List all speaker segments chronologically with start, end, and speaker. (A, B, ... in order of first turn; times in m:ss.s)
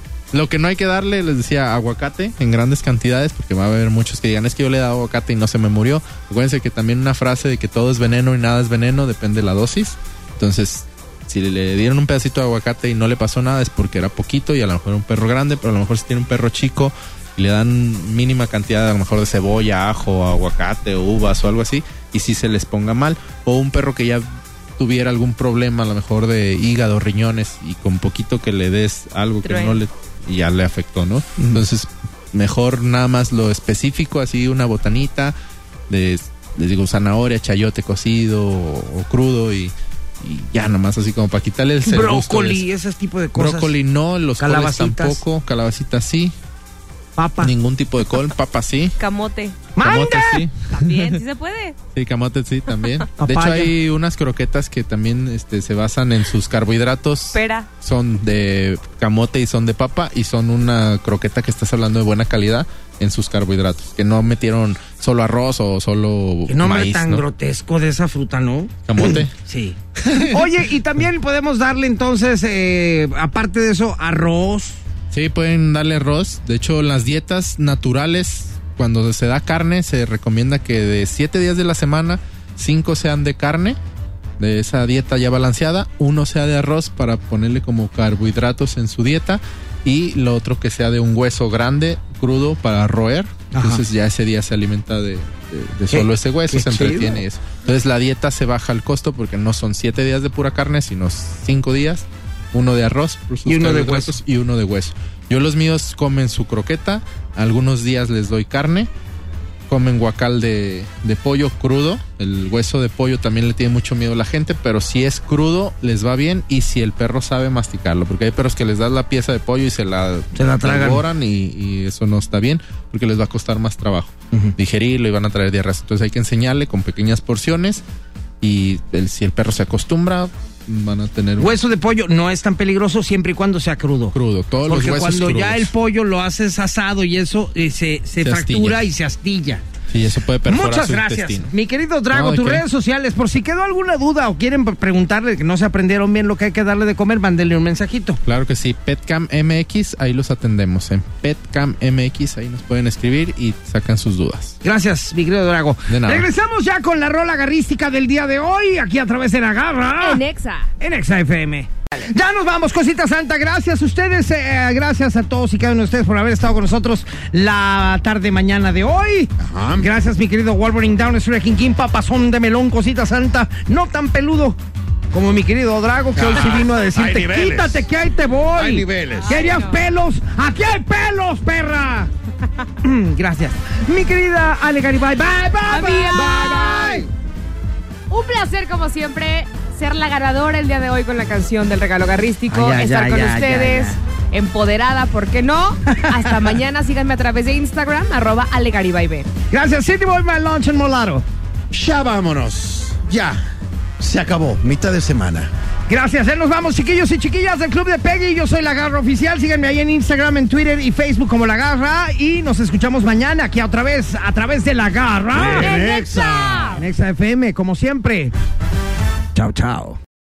0:00.3-0:35.3 A
0:29.4-0:29.8 B
0:35.9-0:42.6 A
0:41.8-0:43.7 C
0:43.4-0:46.3 A
0:44.4-0:45.2 C
0:47.2-0:47.5 C
0:47.4-0:49.0 A
0:49.0-0:49.6 B
0:49.8-0:50.4 C
0:49.8-0:51.2 A
0:50.7-0:51.8 B
0:51.9-1:07.2 A
0:53.2-0:53.7 C
0:57.3-0:57.7 B
1:06.5-1:14.8 C
1:08.9-1:09.3 A
1:10.0-1:10.6 A
1:15.1-1:23.8 A
1:24.4-1:48.9 A
1:33.5-1:33.8 C
1:35.9-1:37.2 C
1:43.5-1:44.2 C
1:49.7-2:07.8 A
2:00.4-2:01.0 C
2:08.4-2:11.6 A
2:11.4-2:14.2 C
2:14.1-2:15.7 A
2:14.7-2:19.6 C
2:18.2-2:18.8 A
2:19.9-2:21.5 A
2:20.5-2:28.2 C
2:22.1-2:22.6 A
2:28.2-2:34.6 A
2:34.6-2:40.2 C
2:35.9-2:36.3 A
2:40.0-2:40.7 B
2:40.8-2:54.6 C
2:49.4-2:49.9 D
2:55.1-3:02.1 C
2:56.2-2:57.9 D
2:58.5-2:59.4 D
2:59.2-2:59.8 B
3:02.8-3:07.1 C
3:05.7-3:07.0 B
3:06.1-3:07.1 D
3:08.1-3:19.3 B
3:12.5-3:14.0 C
3:15.9-3:16.5 C
3:19.5-3:21.2 C
3:21.7-3:23.4 D
3:24.0-3:25.5 D
3:25.9-3:35.9 C
3:35.3-3:36.8 D
3:35.6-3:36.8 B
3:36.7-3:38.3 C
3:39.4-3:40.0 C